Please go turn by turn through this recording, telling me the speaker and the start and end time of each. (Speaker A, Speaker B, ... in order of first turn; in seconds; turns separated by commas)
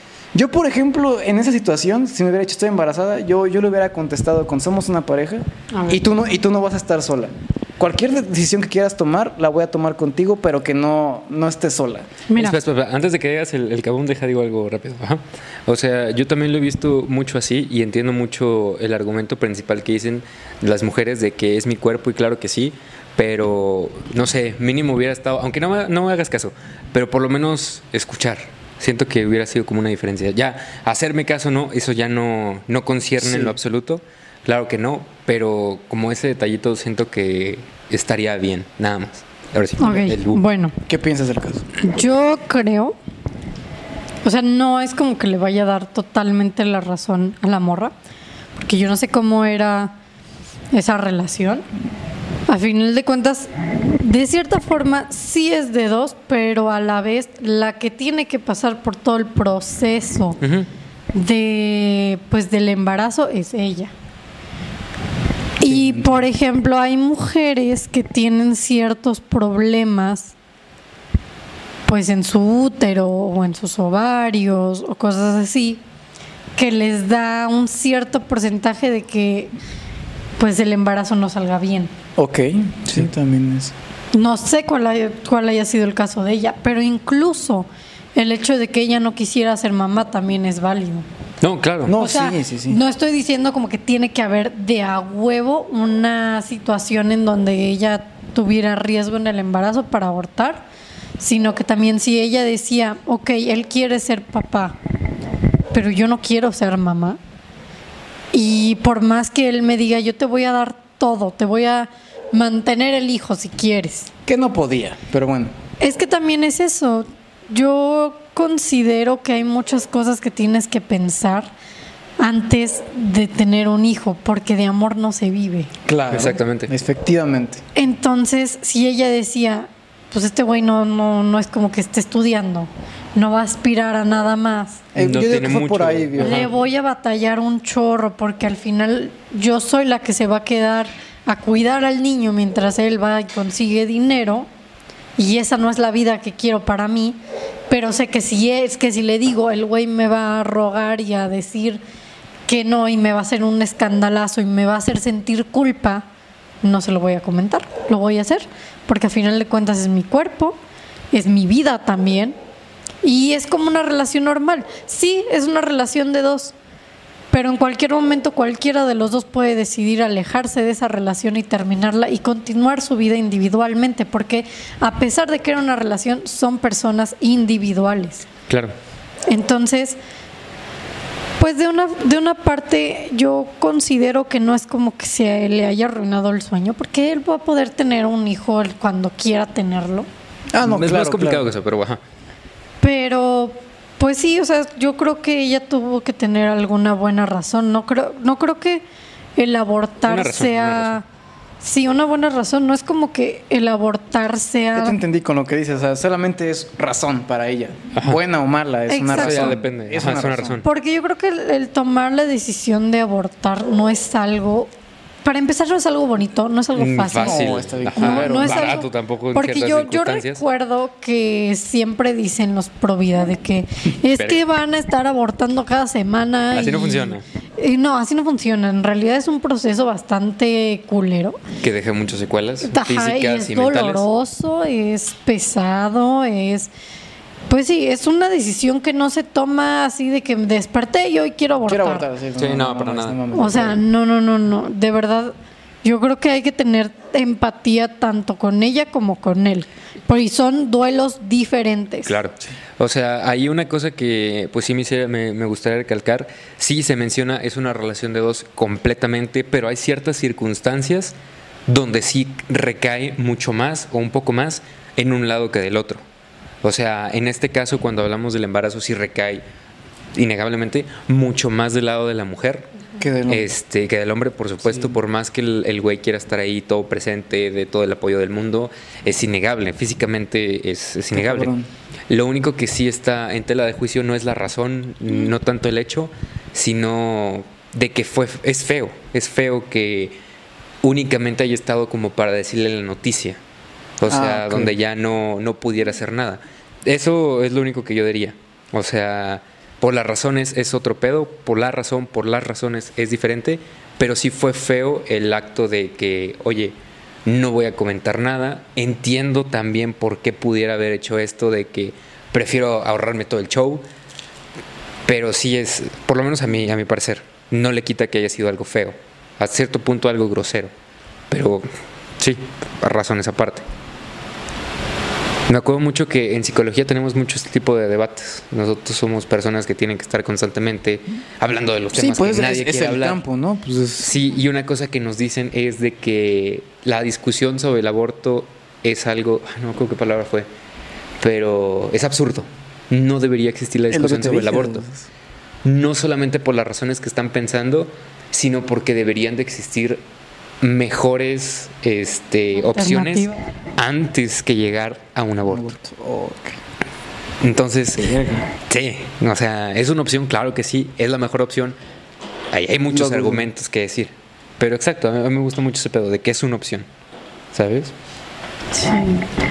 Speaker A: 0.3-12.2, Speaker B: 5.7-6.0, Speaker B: 12.3-12.6, Speaker C: 12.3-40.4, Speaker A: 33.2-33.5, Speaker B: 39.8-40.7, Speaker A: 40.9-41.6, Speaker B: 41.8-43.0, Speaker B: 44.2-47.9, Speaker B: 48.5-50.0, Speaker B: 50.7-51.6, Speaker B: 52.5-60.4, Speaker C: 60.4-60.7, Speaker B: 61.1-63.9, Speaker B: 65.6-70.3, Speaker A: 65.6-66.1, Speaker B: 71.9-75.8, Speaker B: 76.6-79.5, Speaker B: 80.4-81.9, Speaker A: 82.2-83.7, Speaker B: 84.1-91.0, Speaker C: 91.4-91.9, Speaker A: 91.8-92.8, Speaker B: 91.9-100.7, Speaker B: 101.2-104.8, Speaker B: 105.7-107.2, Speaker B: 108.3-114.1, Speaker A: 114.2-115.5, Speaker B: 115.8-121.5, Speaker B: 122.2-125.7, Speaker A: 125.8-127.6, Speaker C: 126.1-126.7, Speaker B: 127.7-134.8, Speaker A: 134.9-136.5, Speaker C: 135.0-136.5, Speaker B: 136.2-144.5, Speaker B: 145.2-147.2, Speaker B: 147.7-151.8, Speaker B: 152.5-156.1, Speaker B: 156.6-160.6, Speaker B: 161.1-162.4, Speaker B: 163.0-166.5, Speaker B: 167.3-178.3, Speaker B: 179.3-180.0, Speaker B: 181.4-190.1, Speaker A: 190.5-191.5, Speaker C: 190.6-192.0, Speaker B: 192.8-198.8, Speaker B: 199.3-201.0, Speaker C: 200.0-201.0, Speaker B: 201.6-205.0, Speaker A: 204.7-210.6, Speaker B: 208.9-209.6, Speaker C: 209.1-210.7, Speaker B: 210.6-214.7, Speaker B: 215.2-231.4, Speaker C: 216.7-220.4, Speaker A: 217.2-218.8, Speaker C: 224.1-224.4, Speaker C: 226.5-227.2, Speaker C: 231.6-234.0, Speaker B: 232.6-236.7, Speaker B: 237.5-242.1, Speaker A: 241.7-243.8, Speaker C: 242.4-243.2, Speaker B: 243.3-252.1, Speaker C: 252.1-261.1, Speaker C: 261.7-266.0, Speaker C: 266.6-269.4, Speaker C: 270.1-272.7, Speaker A: 273.0-273.5, Speaker C: 273.3-281.5, Speaker A: 281.1-281.7, Speaker C: 282.1-290.1, Speaker C: 290.8-293.4, Speaker C: 294.0-306.7, Speaker A: 294.1-294.7, Speaker C: 307.2-313.8, Speaker C: 315.1-320.7, Speaker C: 321.3-321.6, Speaker C: 322.2-323.6, Speaker C: 325.5-333.2, Speaker A: 331.9-334.1, Speaker C: 334.0-340.4, Speaker C: 341.2-344.8, Speaker A: 343.9-345.1, Speaker C: 345.6-350.0, Speaker C: 350.6-355.7, Speaker B: 352.6-353.4, Speaker A: 355.5-356.6, Speaker C: 357.4-361.8, Speaker A: 358.0-358.5, Speaker C: 362.5-366.9, Speaker A: 362.9-363.5, Speaker C: 367.5-367.9, Speaker B: 368.7-369.2